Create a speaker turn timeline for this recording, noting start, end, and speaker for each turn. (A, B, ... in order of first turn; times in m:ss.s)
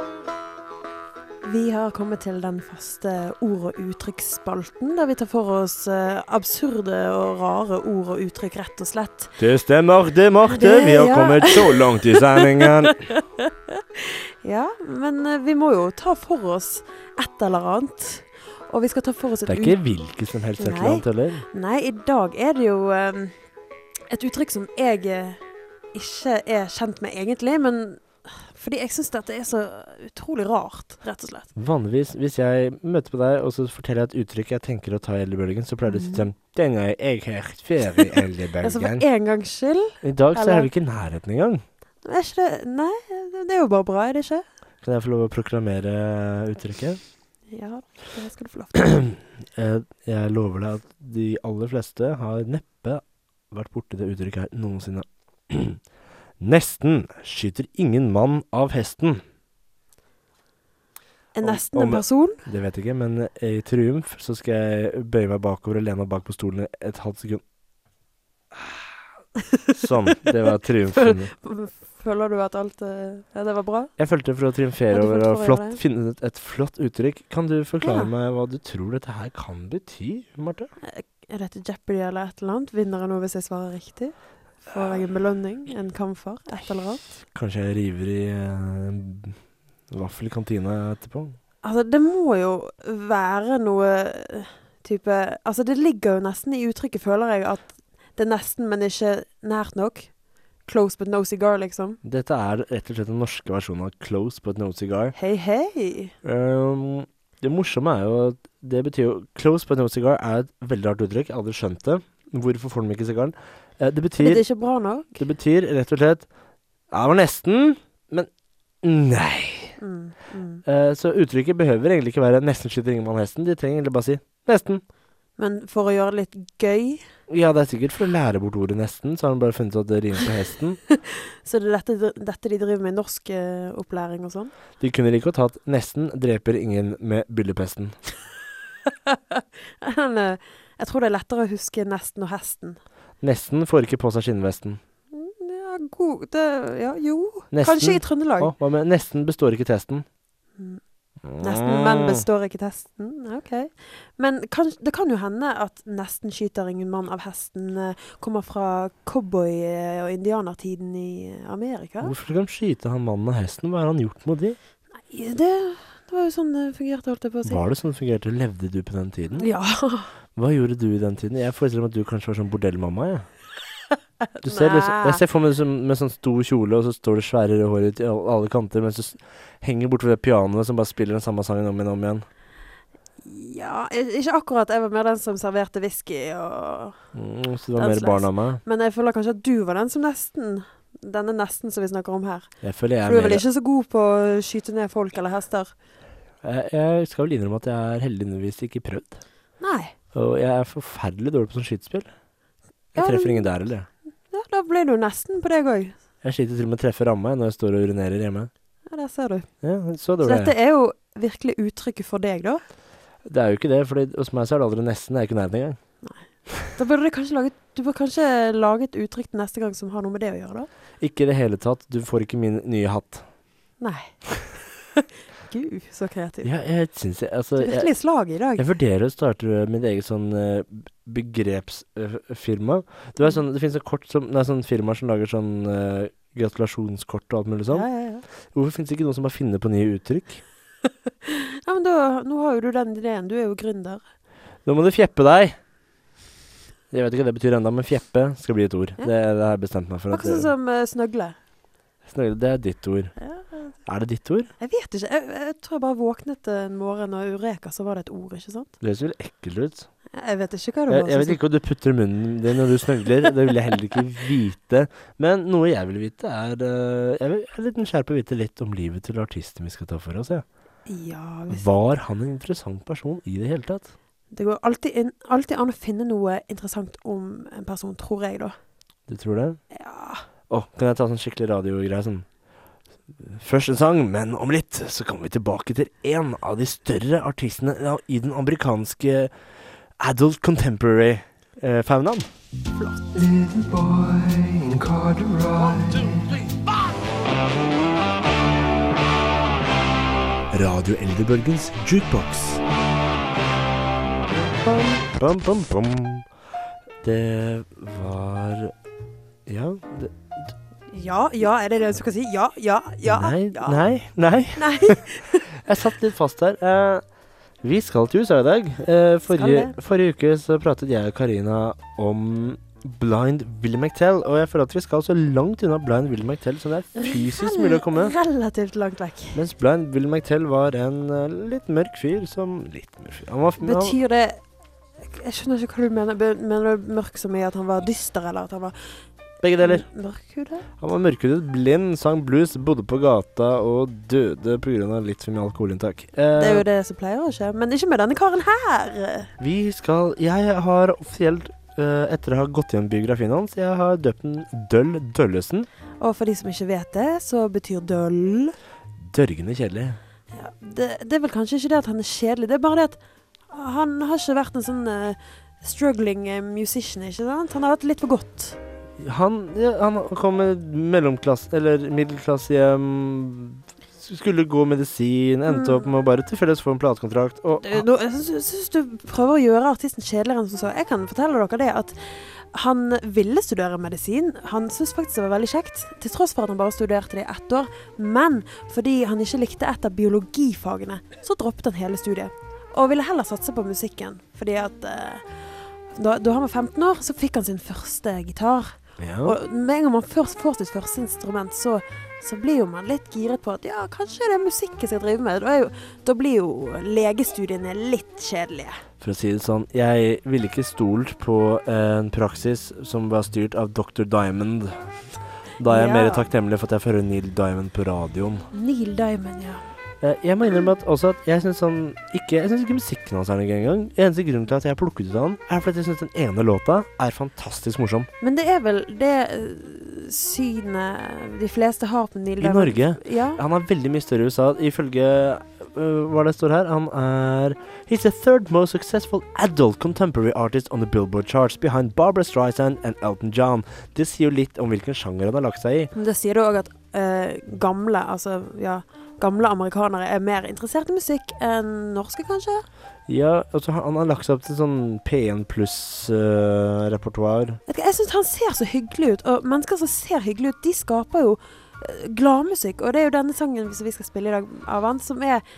0:01.4-0:09.3 A
0:09.4-0:13.0 B
0:10.5-0:19.8 A
0:19.5-0:21.4 B
0:20.6-0:23.4 A
0:24.1-0:25.4 A
0:25.9-0:31.5 A
0:31.6-0:39.1 B
0:35.8-0:36.3 A
0:38.6-0:40.7 A
0:40.0-0:41.6 B
0:42.0-0:44.4 A
0:44.8-0:47.0 B
0:47.5-0:49.1 A
0:49.6-0:55.8 B
0:56.4-0:59.2 B
1:01.4-1:02.4 A
1:01.4-1:07.4 B
1:09.4-1:09.8 A
1:09.7-1:11.3 B
1:10.9-1:13.9 A
1:14.0-1:20.7 B
1:14.9-1:15.8 A
1:17.8-1:18.1 A
1:20.8-1:27.0 A
1:27.3-1:29.4 B
1:29.9-1:31.4 B
1:31.6-1:40.1 A
1:40.7-1:42.0 A
1:42.0-1:45.2 B
1:45.1-1:46.1 A
1:46.2-1:54.4 B
1:54.2-1:55.2 A
1:55.2-1:56.3 B
1:56.9-1:58.3 B
1:58.8-1:59.8 B
1:59.8-2:00.6 A
2:00.6-2:04.8 B
2:05.4-2:07.0 A
2:07.3-2:10.8 B
2:10.9-2:14.5 A
2:14.8-2:18.0 B
2:18.9-2:22.8 A
2:23.2-2:24.8 B
2:25.1-2:28.5 A
2:27.5-2:30.0 B
2:31.2-2:32.2 B
2:31.4-2:42.1 A
2:42.0-2:44.6 B
2:45.1-2:47.6 A
2:47.4-2:49.5 B
2:49.4-2:50.1 A
2:50.4-2:53.3 B
2:54.4-2:55.2 A
2:54.4-3:02.2 B
3:03.2-3:07.0 A
3:07.1-3:08.6 B
3:07.8-3:12.5 A
3:12.6-3:13.4 B
3:13.0-3:15.7 A
3:16.4-3:19.2 B
3:19.6-3:19.9 A
3:20.1-3:22.1 B
3:23.0-3:23.9 B
3:23.0-3:23.5 A
3:24.3-3:26.0 A
3:26.2-3:28.5 B
3:28.9-3:29.5 A
3:29.6-3:30.6 B
3:30.2-3:32.6 A
3:33.2-3:35.8 B
3:36.0-3:40.7 A
3:41.0-3:43.2 B
3:43.8-3:44.1 A
3:45.0-3:46.5 A
3:46.4-3:47.9 B
3:47.6-3:48.7 A
3:48.6-3:57.9 B
3:57.7-3:58.2 A
3:58.5-4:00.4 B
4:01.2-4:04.0 A
4:04.6-4:05.6 B
4:06.9-4:10.5 B
4:10.1-4:11.4 A
4:12.1-4:13.1 B
4:13.2-4:13.7 A
4:13.9-4:14.5 B
4:14.6-4:18.7 A
4:18.8-4:19.9 B
4:20.2-4:21.4 A
4:20.9-4:30.4 B
4:30.9-4:31.7 A
4:31.5-4:33.9 B
4:34.3-4:38.6 A
4:39.1-4:39.6 B
4:39.7-4:40.2 A
4:40.5-4:42.2 B
4:43.2-4:49.3 B
4:50.0-4:52.3 B
4:52.8-4:53.1 A
4:53.1-4:56.4 C
5:00.5-5:02.6 B
5:04.5-5:06.3 B
5:07.0-5:08.7 B
5:09.5-5:10.3 B
5:10.9-5:13.8 A
5:13.0-5:17.0 B
5:14.6-5:15.6 A
5:17.6-5:28.2 B
5:19.3-5:19.8 A
5:27.0-5:29.4 A
5:29.3-5:34.0 B
5:33.6-5:34.4 A
5:35.0-5:38.8 A
5:39.4-5:39.9 B
5:39.6-5:40.7 A
5:40.8-5:46.7 B
5:46.4-5:49.3 A
5:49.4-5:55.7 B
5:56.0-5:58.6 A
5:59.1-6:00.0 B
6:00.3-6:08.6 A
6:09.0-6:17.9 B
6:15.5-6:15.9 A
6:17.6-6:35.2 A
6:35.9-6:48.8 A
6:39.0-6:39.4 B
6:49.0-6:55.0 B
6:55.6-6:58.5 B
6:55.7-6:56.3 A
6:58.5-6:59.6 A
7:00.0-7:08.1 B
7:08.2-7:13.4 A
7:12.4-7:25.9 B
7:26.0-7:32.6 A
7:33.1-7:37.6 B
7:37.7-7:45.4 A